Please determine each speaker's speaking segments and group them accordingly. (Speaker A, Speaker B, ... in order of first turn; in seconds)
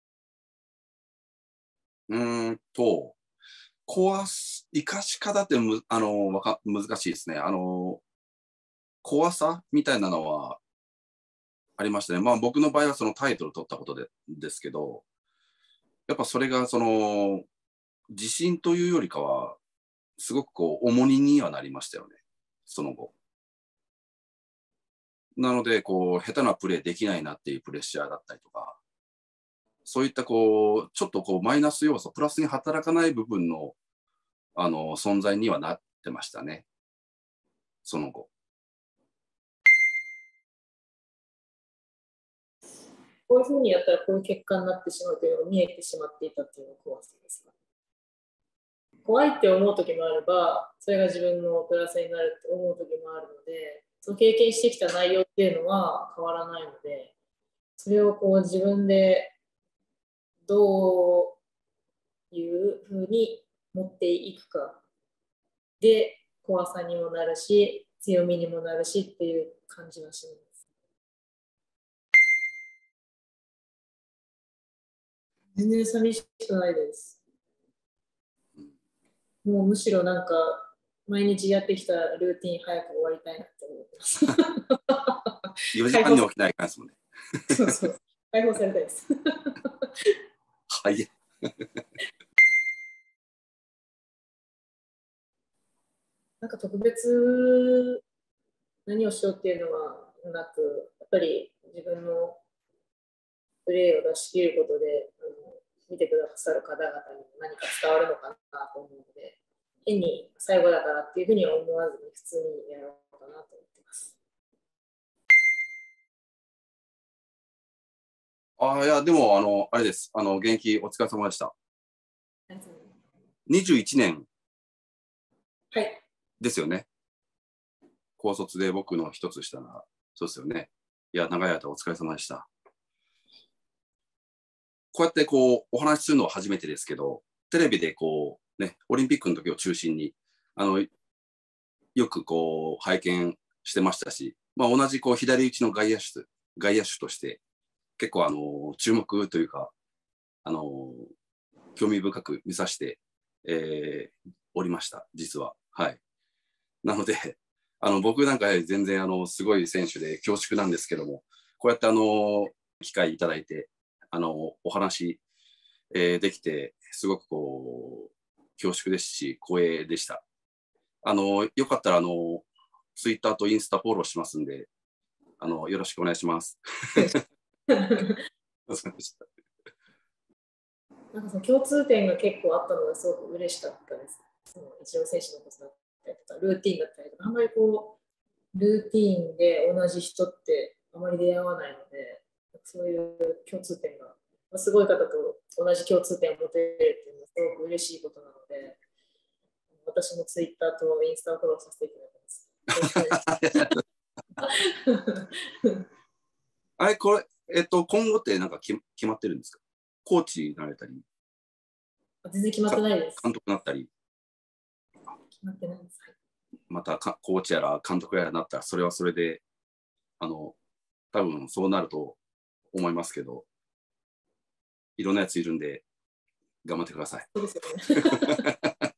Speaker A: 2.1-3.2, 3.9-8.0, 9.0-10.6, 11.8-15.0, 16.1-17.5, 18.1-19.6, 20.2-23.1, 25.4-28.8, 29.9-33.8, 34.6-36.7, 37.9-38.3, 85.7-87.5, 90.7-91.5, 118.6-121.5, 123.5-124.3, 126.4-126.9, 128.2-132.5, 134.9-140.9, 142.0-147.4, 148.0-149.7, 150.4-151.1, 151.8-156.0, 156.8-165.2, 165.9-170.2, 171.0-174.7, 175.4-177.2, 178.7-179.2, 202.9-203.8, 206.8-211.0, 212.7-213.9, 216.7-219.4, 220.2-220.6, 221.1-222.2, 222.7-223.5, 225.0-225.8, 226.6-227.3
Speaker B: 43.3-47.5, 49.0-57.1, 57.8-59.4, 60.5-61.4, 62.3-64.8, 65.8-70.5, 75.5-77.2, 79.4-86.3, 87.5-90.1, 96.4-98.0, 98.9-102.4, 103.7-114.2, 122.5-122.9, 125.7-126.0, 177.7-178.2, 181.1-188.0, 188.5-198.8, 199.8-203.8, 204.4-205.8, 212.2-213.2, 215.3-216.2, 227.3-228.4